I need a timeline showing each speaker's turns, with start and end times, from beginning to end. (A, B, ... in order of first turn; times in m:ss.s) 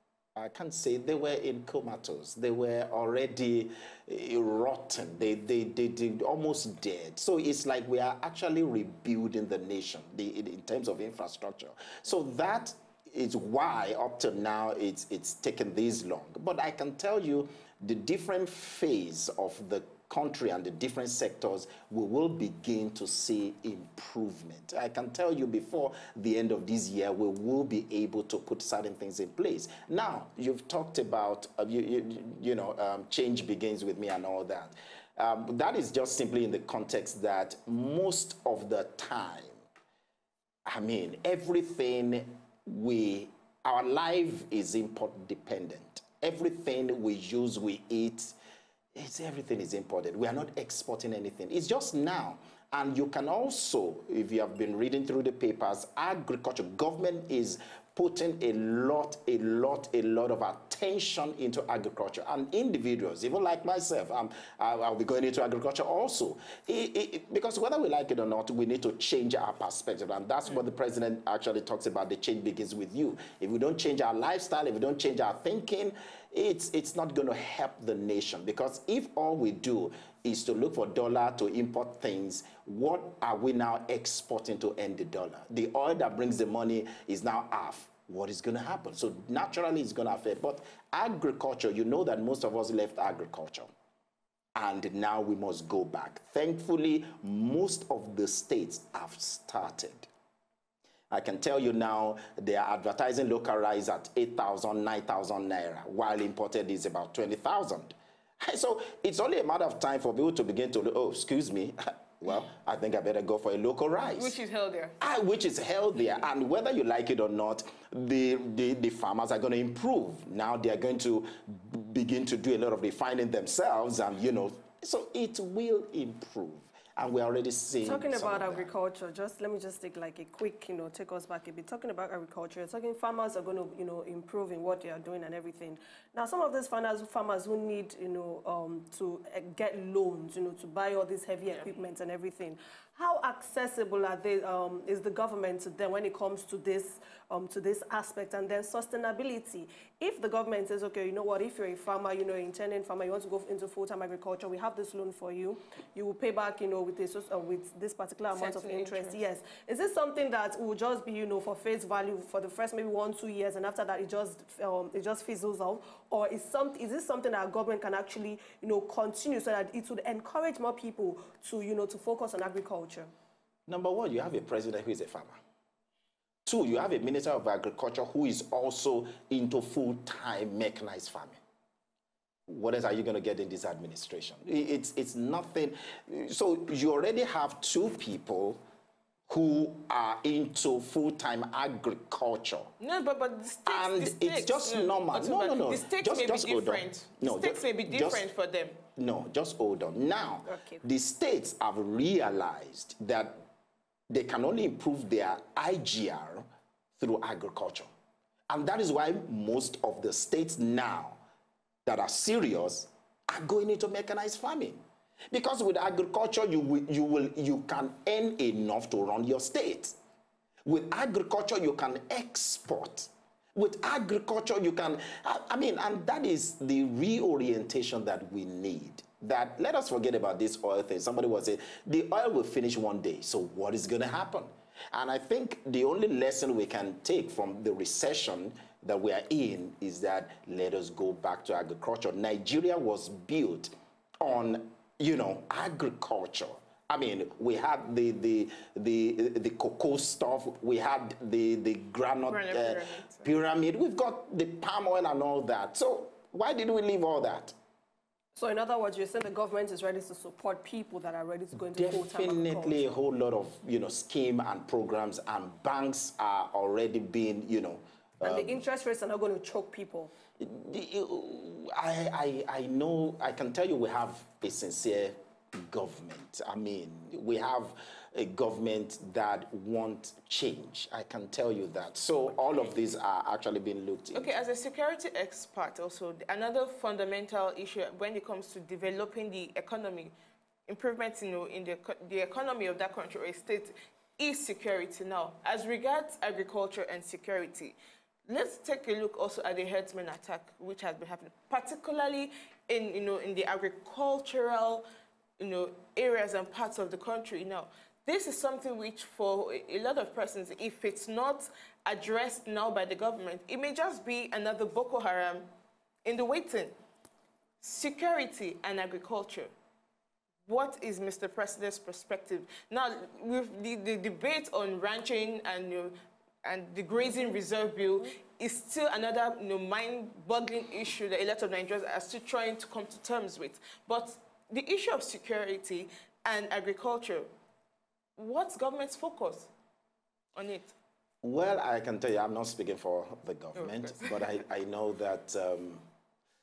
0:00.4-0:39.6 A
0:40.6-0:48.4 A
0:48.9-1:33.7 A
1:34.5-1:40.1 A
1:41.1-1:54.4 A
1:54.1-1:55.0 B
1:55.0-2:08.7 A
2:07.8-2:53.1 C
2:38.3-2:39.2 B
2:53.7-2:55.4 A
2:56.4-3:01.4 A
3:02.5-3:08.6 A
3:09.3-3:12.7 A
3:12.8-3:18.8 B
3:13.7-3:18.2 A
3:19.0-3:23.4 A
3:20.4-3:20.8 C
3:24.1-3:26.4 A
3:27.0-3:27.9 A
3:28.5-3:31.2 A
3:31.8-3:40.0 A
3:40.6-4:17.5 A
4:12.3-4:13.2 B
4:18.4-4:22.9 C
4:21.7-4:28.6 A
4:28.2-4:30.1 C
4:30.4-4:44.3 A
4:44.1-4:50.1 B
4:50.7-4:57.8 B
4:58.3-5:04.8 B
5:05.4-5:15.5 B
5:16.0-5:16.7 B
5:17.6-5:19.5 B
5:20.4-5:37.3 B
5:38.2-5:39.5 B
5:40.3-5:40.7 B
5:41.2-5:45.8 A
5:43.6-5:44.1 B